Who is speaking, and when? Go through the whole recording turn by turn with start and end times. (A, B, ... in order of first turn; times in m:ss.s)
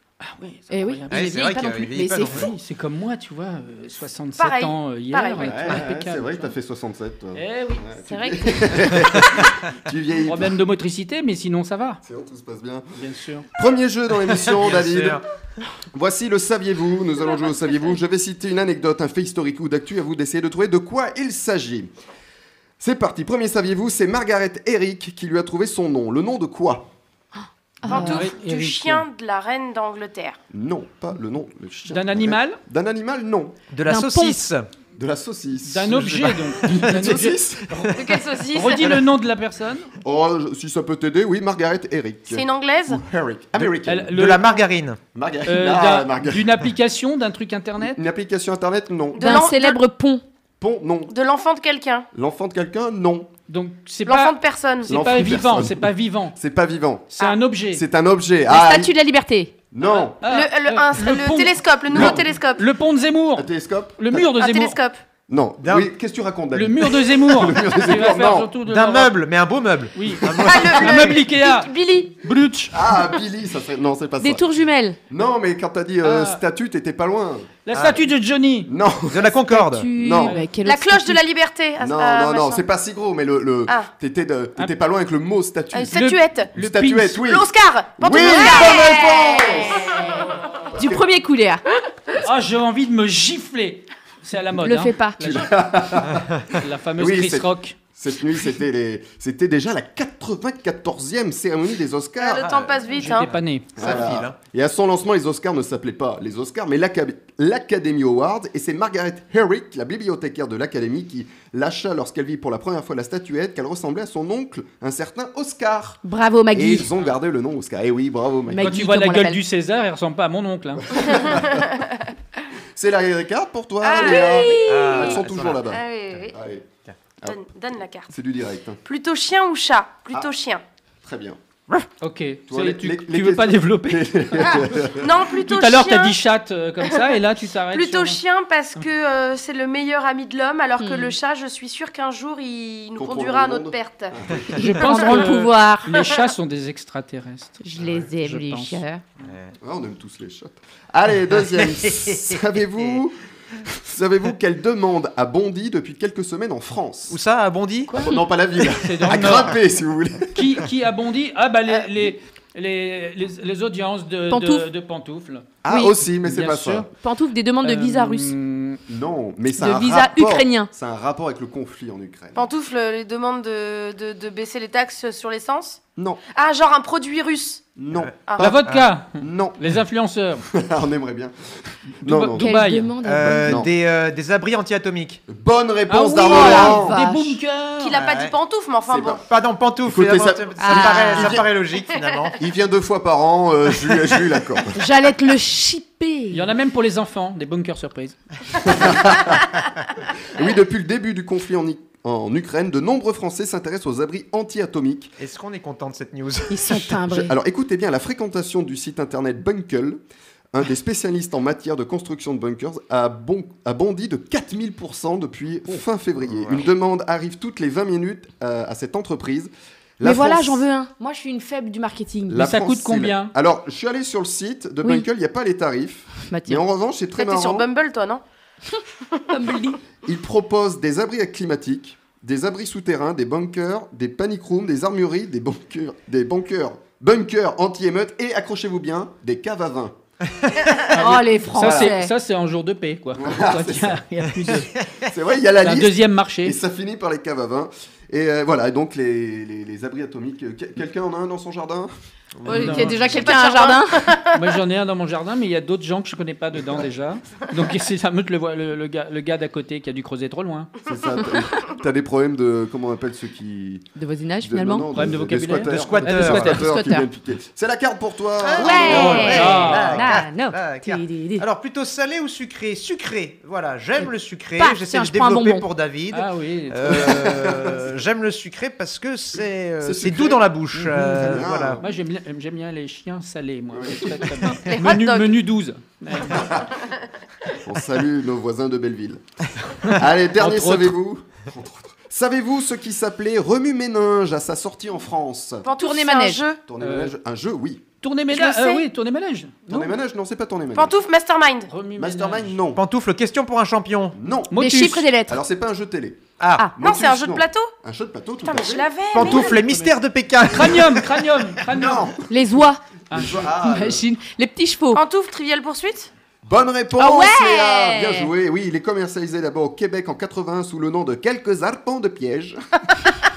0:00.2-0:01.4 A
0:00.7-0:02.5 B
0:01.1-0:02.5 C
0:02.3-0:06.5 A
0:04.4-0:05.5 D
0:05.4-0:10.6 E
0:07.3-0:07.8 A
0:08.0-0:08.9 B
0:10.2-0:12.0 A
0:12.0-0:12.9 E
0:13.0-0:13.4 A
0:13.5-0:15.2 E
0:14.3-0:15.2 C
0:15.9-0:21.9 E
0:22.8-0:26.9 E
0:27.8-0:28.3 B
0:27.9-0:29.0 A
0:27.9-0:30.4 D
0:30.5-0:33.5 E
0:31.9-0:32.6 A
0:33.7-0:34.7 C
0:33.8-0:34.4 B
0:34.9-0:38.0 E
0:35.6-0:39.9 A
0:35.9-0:36.9 C
0:38.0-0:38.9 D
0:40.0-0:44.1 E
0:42.3-0:43.0 D
0:43.6-0:45.0 C
0:43.8-0:44.6 A
0:45.1-0:46.5 E
0:45.4-0:48.0 A
0:47.8-0:49.4 E
0:49.1-0:49.8 D
0:49.2-0:50.2 B
0:50.6-0:51.1 E
0:51.1-0:52.1 D
0:52.1-0:53.3 E
0:53.5-0:56.4 A
0:54.0-0:54.9 D
0:54.8-0:57.0 E
0:57.1-0:57.8 A
0:57.7-0:58.9 E
0:58.5-0:59.5 B
0:59.7-1:00.2 E
0:59.8-1:04.8 A
1:00.2-1:02.6 D
1:01.9-1:02.3 E
1:03.3-1:04.3 E
1:04.3-1:05.0 D
1:05.3-1:08.5 E
1:05.6-1:05.9 C
1:06.5-1:09.2 A
1:08.6-1:11.1 C
1:10.0-1:11.7 A
1:10.3-1:12.1 D
1:12.2-1:12.8 A
1:12.7-1:14.4 E
1:14.2-1:15.0 B
1:15.1-1:17.5 E
1:16.0-1:16.4 A
1:17.6-1:18.7 A
1:17.7-1:18.0 C
1:18.6-1:19.3 E
1:19.1-1:19.9 C
1:19.5-1:21.2 B
1:20.0-1:20.4 E
1:20.1-1:20.5 A
1:20.6-1:22.6 D
1:21.8-1:26.0 E
1:25.7-1:26.5 D
1:25.8-1:27.2 A
1:26.6-1:30.1 E
1:27.2-1:30.1 D
1:28.1-1:28.9 B
1:30.7-1:31.0 E
1:30.7-1:31.6 B
1:32.2-1:36.0 A
1:34.6-1:35.2 B
1:35.2-1:42.5 E
1:36.5-1:37.8 A
1:42.2-1:43.3 D
1:42.4-1:43.1 C
1:42.9-1:43.9 A
1:43.8-1:44.4 C
1:43.8-1:58.8 E
1:56.0-1:56.9 B
1:58.5-1:59.4 B
1:58.6-2:01.0 A
2:00.9-2:01.6 E
2:01.4-2:01.9 D
2:02.8-2:06.7 E
2:03.8-2:06.3 D
2:04.5-2:06.3 C
2:07.2-2:08.1 D
2:08.1-2:08.8 E
2:08.8-2:10.6 D
2:11.0-2:11.4 E
2:12.0-2:14.6 A
2:12.5-2:15.2 E
2:15.0-2:16.2 D
2:15.4-2:18.2 A
2:17.7-2:24.1 D
2:20.8-2:21.1 B
2:23.0-2:24.6 E
2:24.6-2:26.0 B
2:24.6-2:27.6 A
2:27.6-2:29.0 B
2:28.2-2:28.8 A
2:29.2-2:29.5 C
2:29.6-2:37.2 E
2:31.6-2:32.9 C
2:37.1-2:37.9 C
2:37.9-2:38.2 B
2:37.9-2:40.7 E
2:38.7-2:39.6 A
2:40.4-2:45.5 A
2:44.3-2:44.7 B
2:45.6-2:46.9 E
2:45.7-2:45.9 B
2:46.1-2:46.9 A
2:47.0-2:48.3 B
2:47.6-2:48.8 A
2:48.9-2:52.5 E
2:49.5-2:50.7 B
2:52.3-2:55.8 D
2:56.3-2:57.6 D
2:57.8-2:58.6 E
2:58.3-2:58.5 D
2:58.4-3:00.4 A
2:59.2-2:59.6 E
3:00.4-3:02.5 E
3:02.0-3:02.9 A
3:02.4-3:03.6 B
3:03.0-3:05.2 C
3:03.1-3:03.7 E
3:05.3-3:07.0 E
3:05.9-3:08.0 A
3:06.1-3:07.4 B
3:07.8-3:09.2 D
3:07.9-3:08.3 C
3:08.9-3:09.2 E
3:09.2-3:12.4 C
3:09.8-3:11.5 E
3:10.6-3:11.4 B
3:12.4-3:14.8 E
3:14.8-3:16.5 B
3:16.3-3:18.2 A
3:18.6-3:19.4 E
3:20.3-3:25.1 E
3:25.2-3:26.9 C
3:26.5-3:27.3 B
3:27.1-3:30.0 E
3:30.5-3:40.6 E
3:36.3-3:36.7 C
3:40.0-3:42.4 B
3:42.3-3:47.7 E
3:42.4-3:43.3 A
3:46.3-3:46.6 B
3:47.2-3:48.2 D
3:49.3-3:49.8 B
3:50.0-4:00.0 E
4:00.9-4:04.7 A
4:00.9-4:02.1 B
4:01.6-4:01.9 E
4:03.2-4:04.0 E
4:05.0-4:11.9 E
4:05.6-4:06.6 A
4:12.4-4:12.9 C
4:12.4-4:14.1 B
4:12.5-4:13.1 A
4:13.1-4:14.4 D
4:14.3-4:20.7 A
4:20.8-4:23.9 E
4:24.0-4:24.9 B
4:24.4-4:29.8 E
4:24.9-4:26.6 A
4:25.6-4:26.5 C
4:26.4-4:27.1 B
4:28.4-4:41.8 C
4:28.6-4:31.4 B
4:28.8-4:30.0 A
4:34.6-4:35.6 B
4:36.1-4:37.0 A
4:36.8-4:37.9 E
4:39.8-4:40.5 E
4:40.7-4:46.5 A
4:41.1-4:41.8 E
4:43.7-4:44.6 E
4:44.7-4:45.2 B
4:46.3-4:46.6 E
4:47.6-4:49.2 E
4:49.8-4:55.6 E
4:49.9-4:50.9 A
4:55.6-4:56.6 D
4:55.8-4:56.4 B
4:56.7-4:57.8 E
4:56.8-4:57.1 A
4:58.0-4:59.9 A
4:58.3-4:58.8 D
4:59.7-5:00.9 E
5:00.7-5:01.7 D
5:01.7-5:02.5 A
5:02.0-5:02.8 E
5:02.7-5:04.1 C
5:04.1-5:04.5 E
5:04.5-5:05.1 A
5:04.5-5:05.4 B
5:05.3-5:09.3 E
5:06.4-5:06.7 C
5:06.8-5:07.7 D
5:08.4-5:09.6 D
5:09.1-5:11.1 C
5:09.6-5:09.9 A
5:10.5-5:12.1 A
5:11.6-5:12.2 E
5:12.3-5:12.8 B
5:13.1-5:13.5 A
5:13.1-5:14.0 E
5:13.5-5:15.0 B
5:14.9-5:16.1 D
5:16.4-5:22.6 E
5:17.0-5:18.3 B